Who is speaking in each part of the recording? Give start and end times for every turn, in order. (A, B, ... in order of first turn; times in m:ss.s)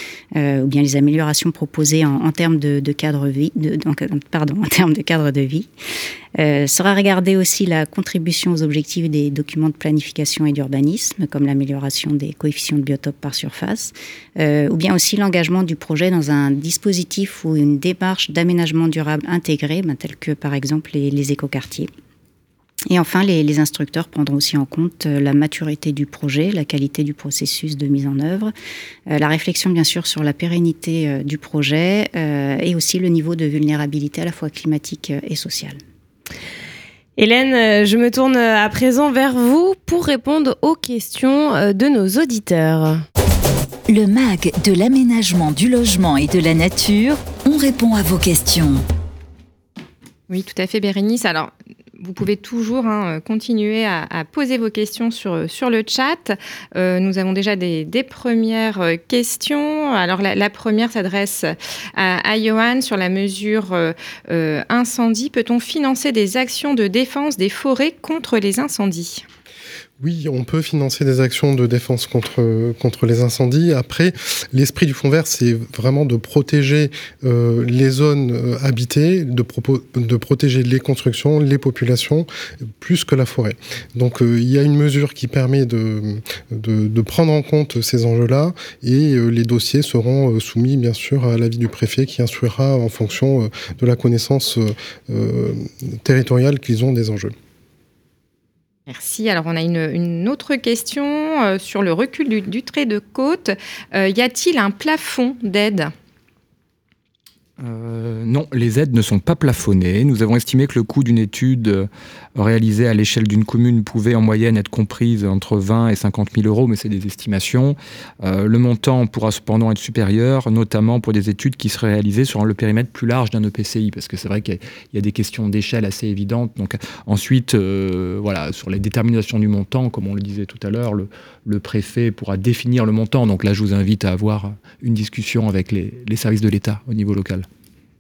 0:00.4-0:05.7 A
0:06.4-0:21.9 A
0:22.9-0:28.5 A
0:29.1-0:35.8 A
0:37.2-0:43.0 B
0:43.9-0:48.8 C
0:50.3-1:09.2 D
1:10.0-1:22.3 E
1:22.8-1:37.3 E
1:38.9-1:45.9 D
1:47.6-2:17.5 F